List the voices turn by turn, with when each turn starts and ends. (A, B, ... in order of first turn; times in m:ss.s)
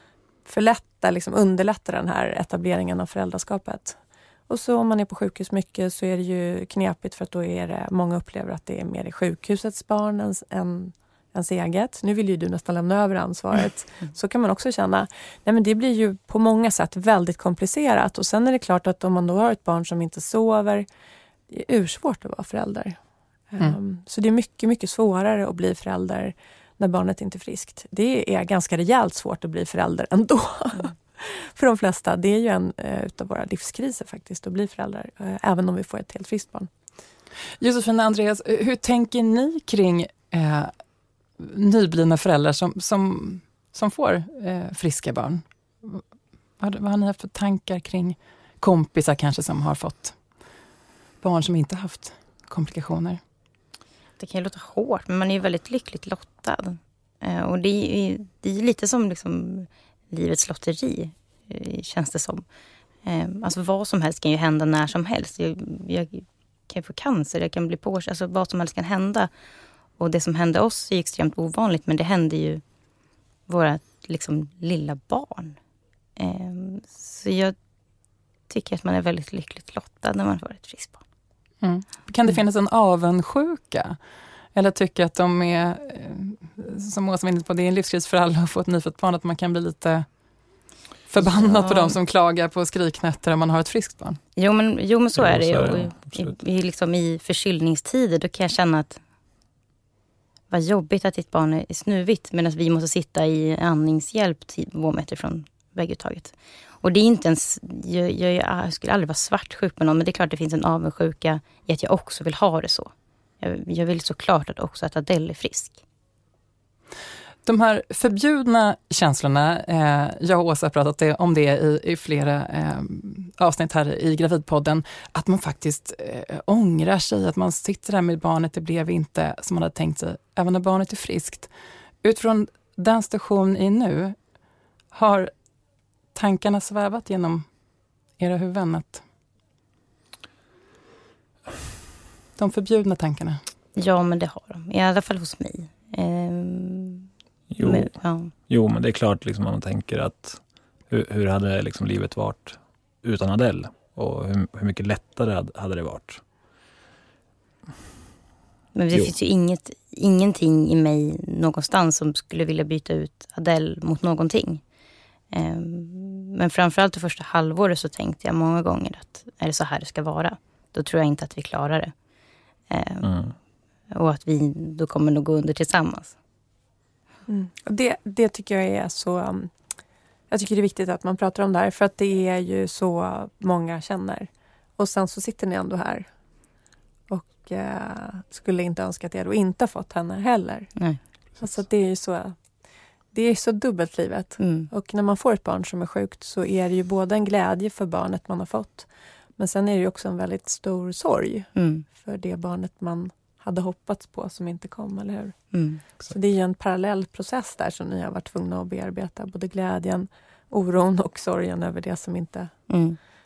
0:00.4-0:20.8 A
0:21.5-0:23.0 A
0:23.5-0:36.7 A
0:37.6-0:40.7 B
0:41.4-0:46.0 B
0:46.6-0:50.2 B
0:51.2-0:53.2 B
0:54.2-1:02.4 C
1:03.0-1:09.3 C
1:10.0-1:12.6 C
1:13.5-1:15.6 C
1:16.2-1:17.5 C
1:18.5-1:21.0 C
1:21.6-1:24.0 B
1:24.5-1:30.1 B
1:31.1-1:34.2 B
1:31.2-1:32.0 C
1:34.4-1:39.0 C
1:35.2-1:36.3 D
1:40.5-1:55.8 C
1:57.4-2:11.5 B
2:12.0-2:14.2 B
2:14.9-2:15.3 B
2:16.1-2:17.4 B
2:18.2-2:19.0 B
2:22.4-2:23.4 B
2:23.8-2:28.3 C
2:27.5-2:27.9 D
2:28.5-2:36.2 D
2:38.7-2:44.6 C
2:45.3-2:51.9 C
2:52.7-2:53.1 C
2:53.0-2:53.3 D
2:53.9-2:56.2 C
2:57.3-2:59.5 A
3:00.3-3:06.1 A
3:07.1-3:12.4 A
3:13.1-3:32.7 A
3:14.4-3:14.7 C
3:21.5-3:21.8 C
3:25.5-3:25.8 C
3:32.7-3:33.0 C